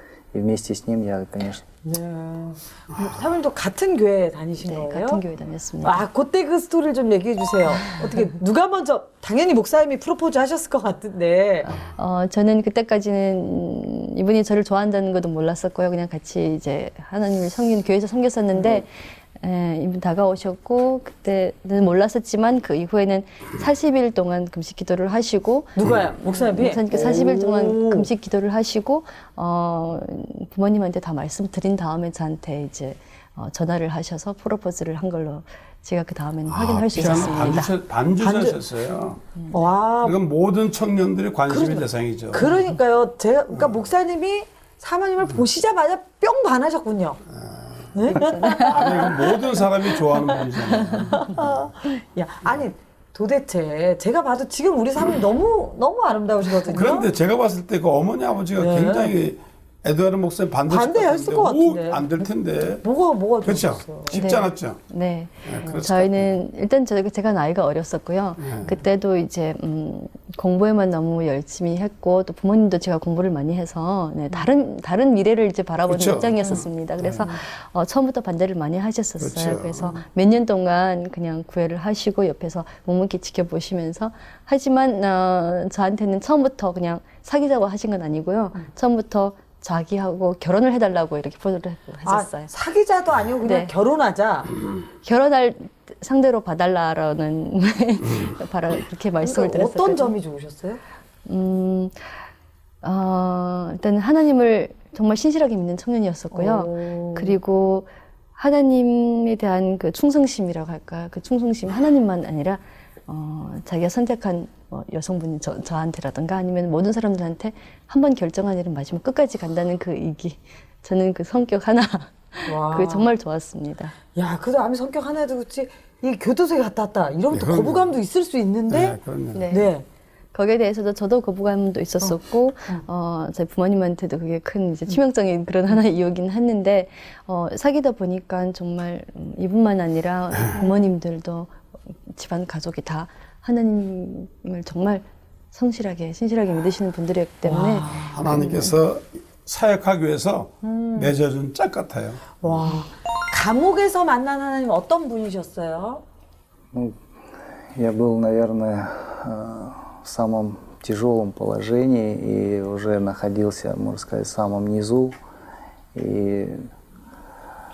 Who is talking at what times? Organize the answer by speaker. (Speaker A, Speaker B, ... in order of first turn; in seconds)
Speaker A: 0.3-1.7, 156.7-165.2, 165.9-166.7
Speaker B: 1.8-5.2, 5.8-11.7, 18.6-18.8, 25.8-28.1, 38.2-38.6, 39.5-40.1, 41.5-47.2, 47.9-57.1, 58.6-59.1, 60.7-62.3, 62.8-64.2, 76.4-76.7, 92.1-94.5, 99.2-100.8, 106.3-107.4, 122.5-123.1, 124.2-129.0, 129.5-129.8, 140.6-140.8, 147.5-148.2, 150.6-151.2, 152.4-156.0
Speaker C: 4.6-6.1, 7.8-8.1, 11.7-37.7, 48.1-49.1, 64.1-92.5, 93.4-93.7, 95.0-100.2, 101.3-102.2, 102.8-124.0, 129.3-129.7, 130.3-148.8
Speaker D: 36.5-39.2, 40.0-42.7, 47.3-51.6, 56.7-62.8, 63.4-64.8, 65.4-66.3, 68.4-68.7, 75.9-77.3, 79.2-80.0, 127.3-127.9, 128.7-129.4, 148.1-152.7